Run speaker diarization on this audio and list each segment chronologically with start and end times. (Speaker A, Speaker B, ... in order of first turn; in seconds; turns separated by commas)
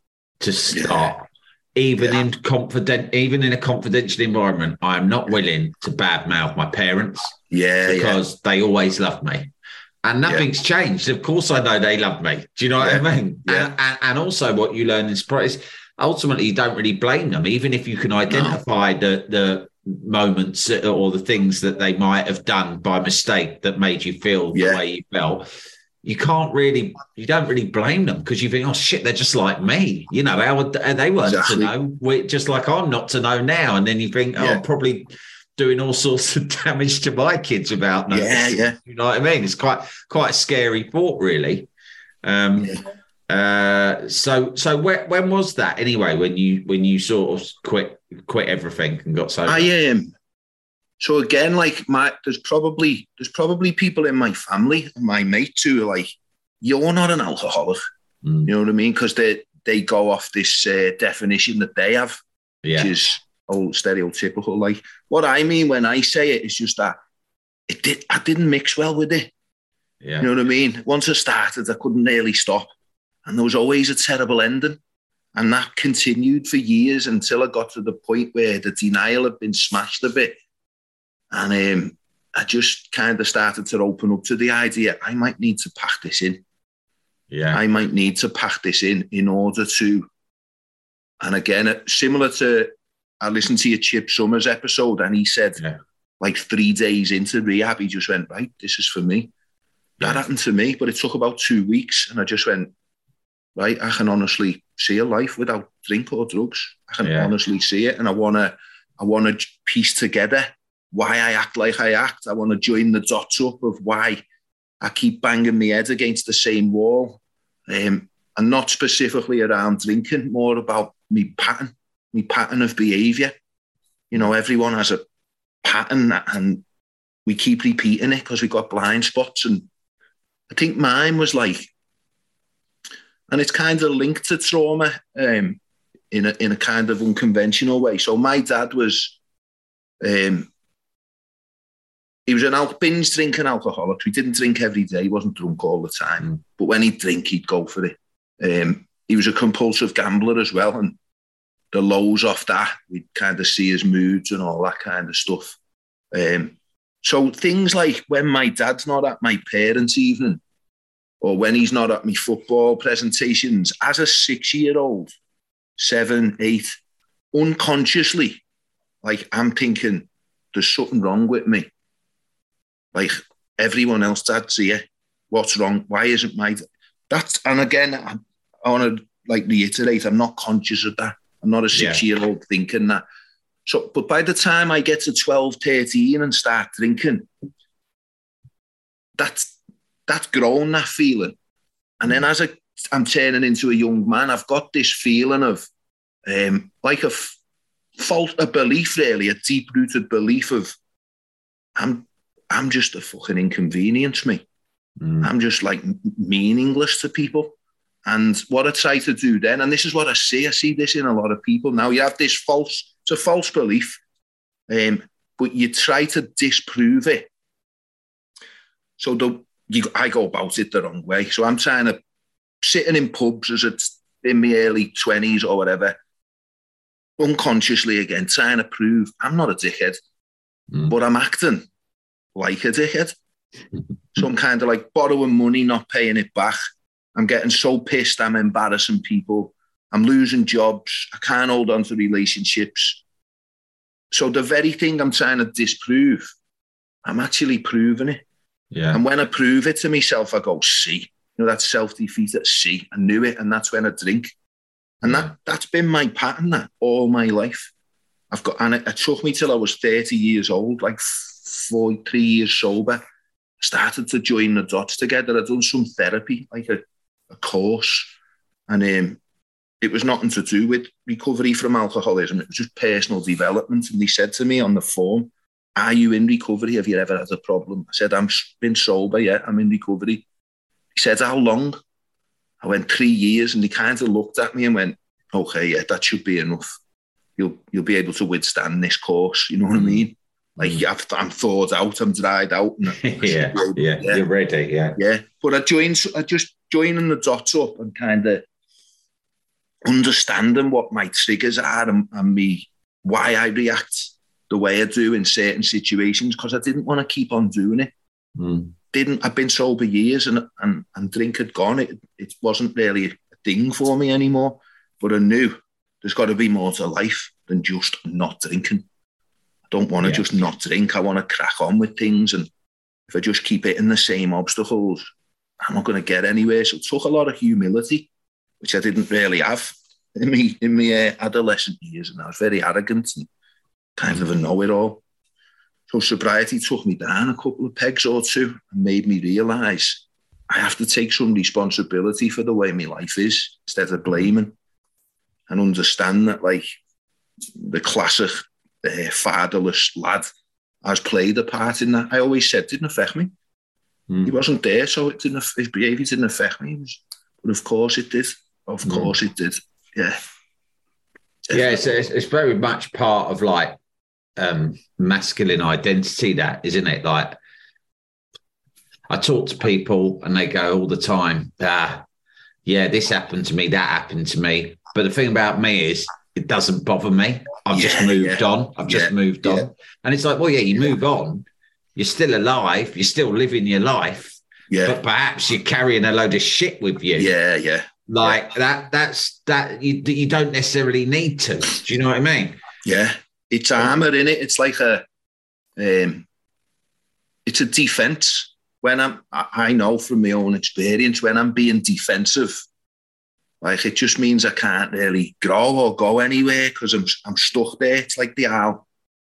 Speaker A: 0.4-9.5, Speaker B: 0.7-1.1, Speaker B: 7.5-8.2, Speaker A: 10.0-25.5, Speaker B: 12.8-13.7, Speaker B: 18.3-18.6, Speaker B: 24.5-24.8, Speaker A: 26.0-41.7, Speaker B: 31.2-31.7, Speaker B: 34.3-34.6, Speaker B: 38.1-38.8, Speaker A: 42.2-49.7, Speaker B: 42.5-42.8, Speaker B: 49.5-50.1, Speaker B: 51.0-56.1, Speaker B: 56.6-57.8, Speaker A: 58.2-58.5, Speaker B: 58.4-62.2, Speaker A: 62.6-62.9, Speaker B: 62.8-67.0, Speaker B: 67.7-69.3, Speaker A: 70.0-70.3, Speaker B: 70.2-72.7, Speaker B: 73.2-74.8, Speaker B: 75.3-80.4, Speaker B: 81.3-86.4, Speaker A: 87.3-87.6, Speaker B: 87.5-90.1, Speaker B: 91.2-95.6, Speaker B: 96.2-99.3, Speaker B: 100.0-102.7, Speaker B: 103.5-114.2, Speaker A: 107.0-107.3, Speaker B: 114.8-123.3, Speaker B: 124.1-125.0, Speaker B: 125.6-126.6, Speaker B: 127.2-129.7, Speaker B: 130.5-131.7, Speaker B: 133.3-135.6, Speaker B: 136.1-139.2, Speaker B: 140.0-140.5, Speaker B: 142.2-151.0, Speaker B: 151.7-155.6, Speaker B: 156.1-160.4, Speaker B: 161.2-165.1, Speaker B: 165.8-166.8, Speaker B: 167.3-168.4, Speaker B: 169.0-171.7, Speaker B: 172.9-183.0, Speaker A: 181.7-182.0, Speaker B: 183.7-187.3, Speaker B: 189.2-189.5, Speaker B: 190.1-191.3, Speaker B: 192.0-195.7, Speaker B: 196.2-197.4, Speaker B: 197.9-200.7, Speaker B: 201.8-204.4, Speaker A: 205.0-205.3, Speaker B: 205.2-214.0, Speaker B: 214.7-217.3, Speaker B: 219.0-222.0, Speaker B: 222.6-226.0, Speaker B: 227.2-230.0, Speaker B: 230.9-231.7, Speaker B: 232.3-233.2, Speaker B: 234.1-236.6, Speaker B: 237.1-243.0, Speaker B: 244.1-246.3, Speaker B: 247.0-248.2, Speaker A: 248.7-249.0, Speaker B: 248.9-254.3, Speaker B: 255.0-257.7, Speaker A: 255.0-255.3, Speaker B: 258.3-263.0, Speaker B: 263.6-268.1, Speaker B: 268.7-269.2, Speaker B: 269.8-280.2, Speaker B: 280.9-281.8, Speaker B: 282.6-286.8, Speaker B: 287.4-294.2, Speaker A: 289.7-290.1, Speaker A: 290.6-290.8, Speaker A: 292.9-295.0, Speaker B: 295.0-298.4, Speaker B: 299.8-307.9, Speaker A: 308.4-308.7, Speaker B: 308.9-318.9, Speaker B: 319.7-322.5, Speaker A: 320.0-320.4, Speaker B: 323.1-328.1, Speaker B: 328.6-333.3, Speaker B: 333.9-335.0, Speaker B: 335.9-344.5, Speaker B: 345.5-346.7, Speaker B: 347.5-350.3, Speaker B: 350.8-353.3, Speaker A: 354.1-354.3, Speaker B: 354.2-360.2, Speaker A: 358.8-359.1, Speaker B: 361.5-361.8, Speaker A: 361.5-363.8, Speaker A: 364.4-367.4, Speaker A: 369.1-372.0, Speaker A: 372.6-387.3, Speaker B: 377.7-379.7, Speaker B: 384.7-385.0, Speaker B: 387.1-388.4, Speaker A: 388.1-392.6, Speaker B: 392.8-395.0, Speaker B: 395.8-396.2, Speaker B: 397.4-402.6, Speaker B: 403.6-408.8